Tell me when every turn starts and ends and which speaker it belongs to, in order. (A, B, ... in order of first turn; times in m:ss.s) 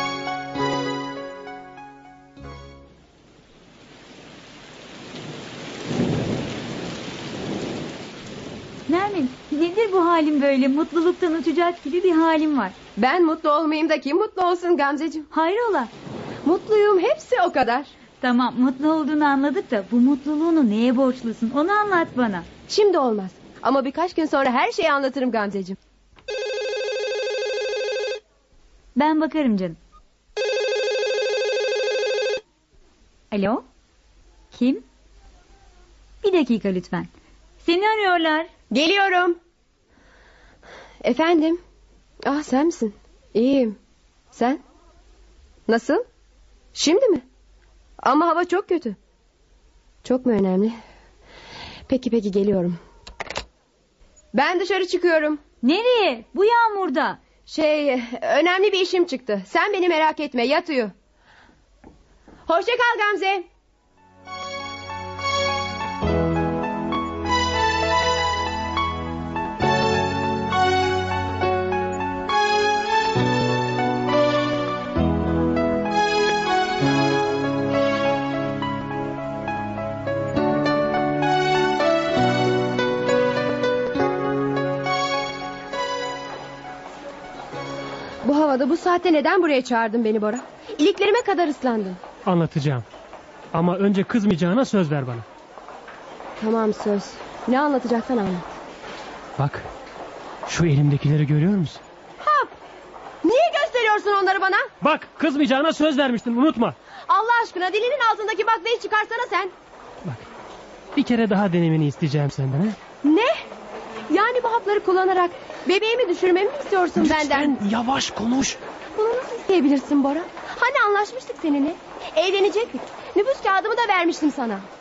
0:08.9-0:12.8 A
0:13.0-0:15.3 B
0:15.3-0:15.9 A
0:16.4-0:17.9 B
0:18.2-0:22.5 A
0:22.7-0:25.8 B
0:28.9-0:29.8 A
0:33.3-0:33.6 A
0:34.5-0:34.8 A
0:36.2-0:37.1 A
0:37.6-0:38.5 A
0:38.7-0:39.4 B
0:41.0-0:41.6 B
0:42.2-0:43.7 B
0:44.3-0:44.6 B
0:45.7-0:46.0 B
0:46.7-0:47.2 B
0:48.0-0:49.0 B
0:50.0-0:50.8 B
0:51.9-0:52.8 B
0:54.3-0:55.4 B
0:55.6-0:57.2 A
0:57.4-1:00.9 B
1:02.5-1:03.5 B
1:28.2-1:32.0 B
1:32.2-1:32.8 C
1:33.5-1:35.2 C
1:36.4-1:38.5 B
1:39.4-1:39.7 C
1:40.4-1:41.8 C
1:42.2-1:42.5 B
1:43.2-1:44.7 B
1:44.8-1:46.7 C
1:47.1-1:49.5 B
1:51.0-1:52.8 C
1:53.0-1:53.3 B
1:54.1-1:57.6 B
1:57.0-1:58.6 C
1:59.0-2:04.6 B